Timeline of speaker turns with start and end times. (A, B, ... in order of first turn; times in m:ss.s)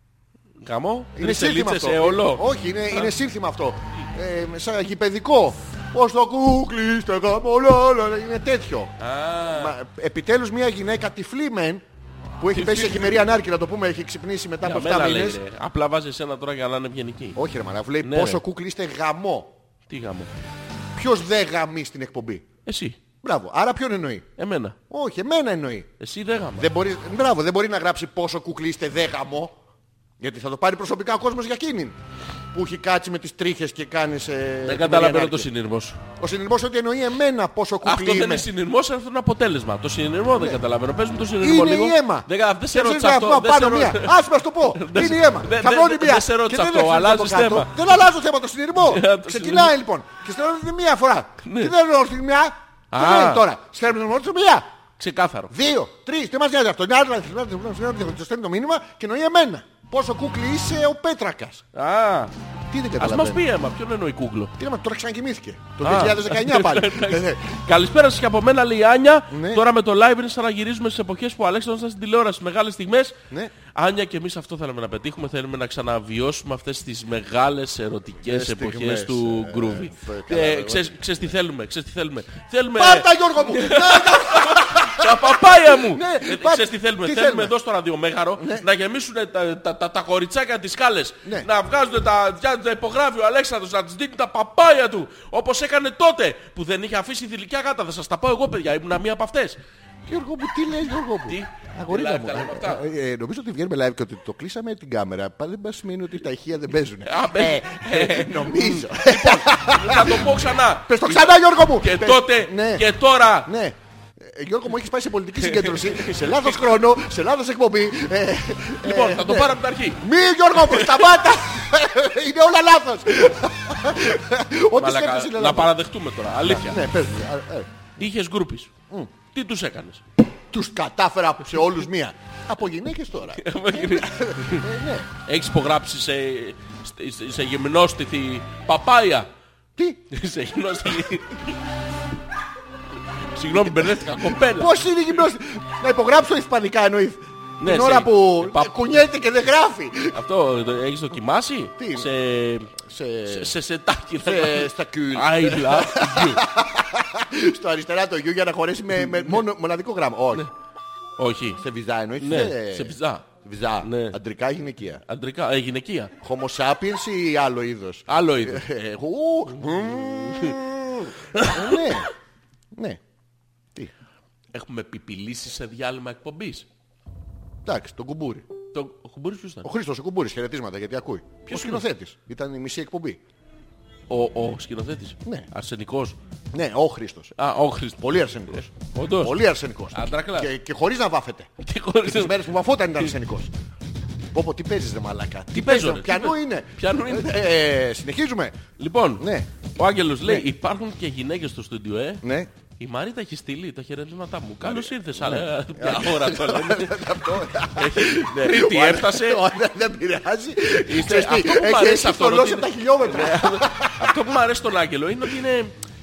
0:00.6-0:03.1 A
0:01.2-0:08.9 B
0:09.0-0:09.8 A
0:09.5-0:11.8 B
0:12.4-0:15.4 B
0:12.5-0:13.2 A
0:14.6-0:17.4 A
0:17.4-0:19.5 B
0:18.0-0:18.4 A
0:19.9-0:20.3 A
0:21.0-0:22.4 B
0:22.7-0:23.0 A
0:23.2-0:24.3 B
0:24.4-0:24.8 A
0:24.9-0:25.9 B
0:26.0-0:26.7 A
0:26.6-0:29.6 B
0:30.2-0:32.0 B
0:32.5-0:35.5 B
0:34.6-0:36.0 A
0:36.2-0:38.5 B
0:37.8-0:44.2 A
0:40.4-0:40.6 B
0:41.4-0:54.7 B
0:44.7-0:47.7 A
0:48.8-0:49.7 A
0:51.4-0:51.8 A
0:52.9-0:53.5 A
0:55.0-0:55.5 A
0:55.5-1:01.6 B
1:01.7-1:02.3 A
1:02.7-1:03.5 B
1:03.0-1:04.5 A
1:04.6-1:07.6 B
1:05.8-1:13.2 A
1:09.3-1:09.6 B
1:13.7-1:39.6 A
1:18.3-1:21.0 B
1:22.8-1:27.5 B
1:28.4-1:28.7 B
1:40.1-1:50.3 B
1:41.3-1:42.8 A
1:47.0-1:53.5 A
1:50.8-1:52.9 B
1:53.4-2:05.7 B
1:55.4-1:56.6 A
1:58.8-2:00.0 A
2:00.6-2:01.1 A
2:04.8-2:06.8 A
2:06.4-2:07.9 B
2:08.0-2:08.7 A
2:09.3-2:10.0 A
2:10.5-2:15.1 B
2:13.4-2:14.7 A
2:15.2-2:19.3 A
2:19.8-2:20.0 B
2:20.1-2:21.6 A
2:23.3-2:24.8 A
2:23.9-2:30.2 B
2:27.6-2:28.8 A
2:30.1-2:36.4 A
2:31.8-2:32.1 B
2:32.7-2:33.6 B
2:34.2-2:40.5 B
2:41.2-2:41.6 A
2:41.6-2:45.0 B
2:42.2-2:43.3 A
2:43.8-2:44.2 A
2:45.1-2:46.1 A
2:46.2-2:52.1 B
2:48.1-2:48.6 A
2:50.0-2:50.6 A
2:51.4-2:51.9 A
2:52.7-2:53.0 B
2:54.5-2:56.7 A
2:57.6-2:58.5 B
2:58.7-2:59.7 A
2:59.6-3:03.2 B
3:01.5-3:01.8 A
3:04.1-3:06.2 A
3:06.5-3:07.3 B
3:07.4-3:10.5 A
3:08.0-3:11.5 B
3:11.6-3:12.4 A
3:12.0-3:13.5 B
3:14.3-3:18.6 B
3:15.5-3:17.3 A
3:18.8-3:22.2 A
3:19.2-3:19.5 B
3:22.2-3:22.5 B
3:22.8-3:27.1 A
3:24.6-3:34.4 B
3:27.6-3:29.4 A
3:30.8-3:35.8 A